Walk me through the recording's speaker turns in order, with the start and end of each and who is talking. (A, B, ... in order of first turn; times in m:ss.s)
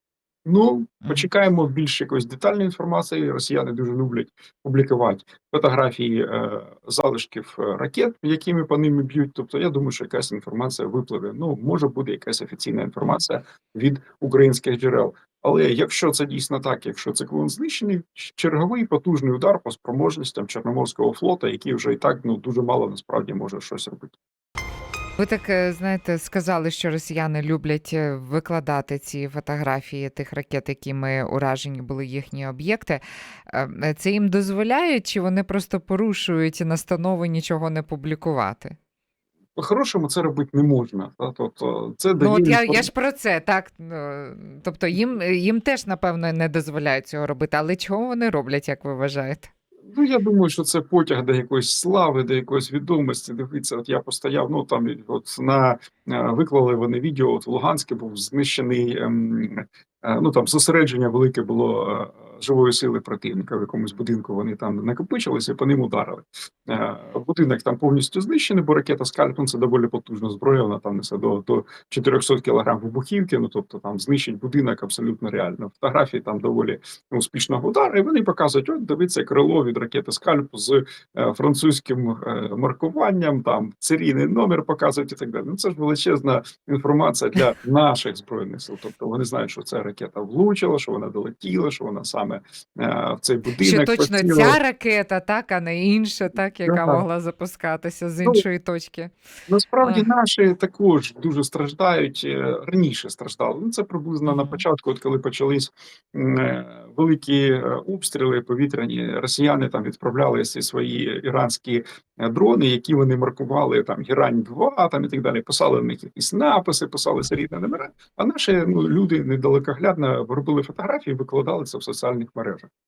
0:00.4-0:24.1 A
0:25.2-0:38.8 B
0:39.6-0:42.9 A
0:42.2-0:49.5 B
0:49.9-1:34.6 A
1:33.6-1:39.1 B
1:36.6-1:37.0 A
1:39.5-2:02.7 A
1:39.8-1:40.1 B
1:44.2-1:44.6 B